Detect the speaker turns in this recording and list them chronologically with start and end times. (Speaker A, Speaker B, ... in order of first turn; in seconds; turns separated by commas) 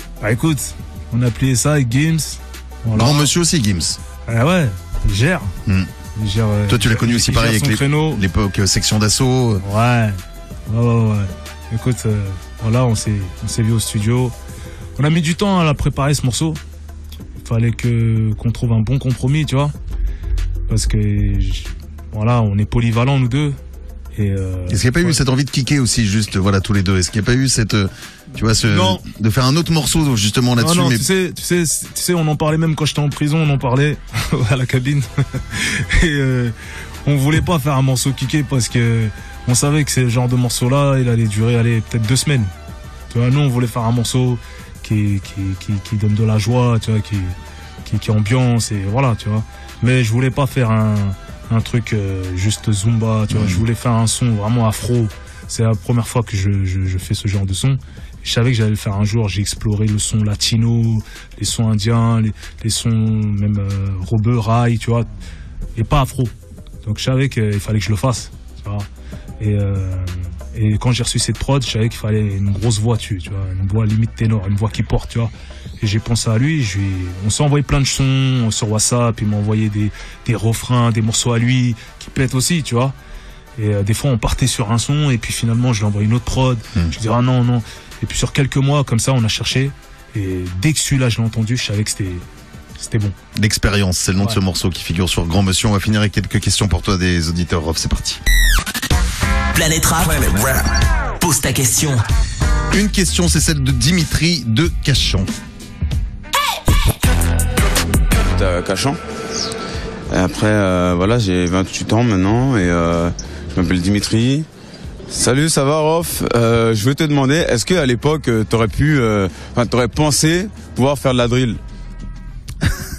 Speaker A: 0.2-3.3, Speaker B: 2.9-4.0, Speaker A: 4.3-5.5, Speaker B: 5.7-5.9, Speaker A: 6.1-8.2, Speaker B: 6.7-9.6, Speaker A: 9.6-14.3, Speaker A: 15.0-16.6, Speaker A: 17.4-19.7, Speaker A: 20.7-23.6, Speaker A: 24.1-25.2, Speaker B: 24.7-31.1, Speaker A: 28.6-29.0, Speaker A: 30.6-42.5, Speaker A: 43.1-65.1, Speaker B: 53.3-53.6, Speaker A: 65.8-66.3, Speaker A: 66.8-68.9, Speaker A: 69.4-82.9, Speaker A: 83.6-93.2, Speaker B: 93.3-98.2, Speaker C: 99.5-100.6, Speaker C: 101.2-102.0, Speaker B: 102.7-105.3, Speaker D: 108.1-109.0, Speaker D: 110.1-114.5, Speaker D: 115.1-121.6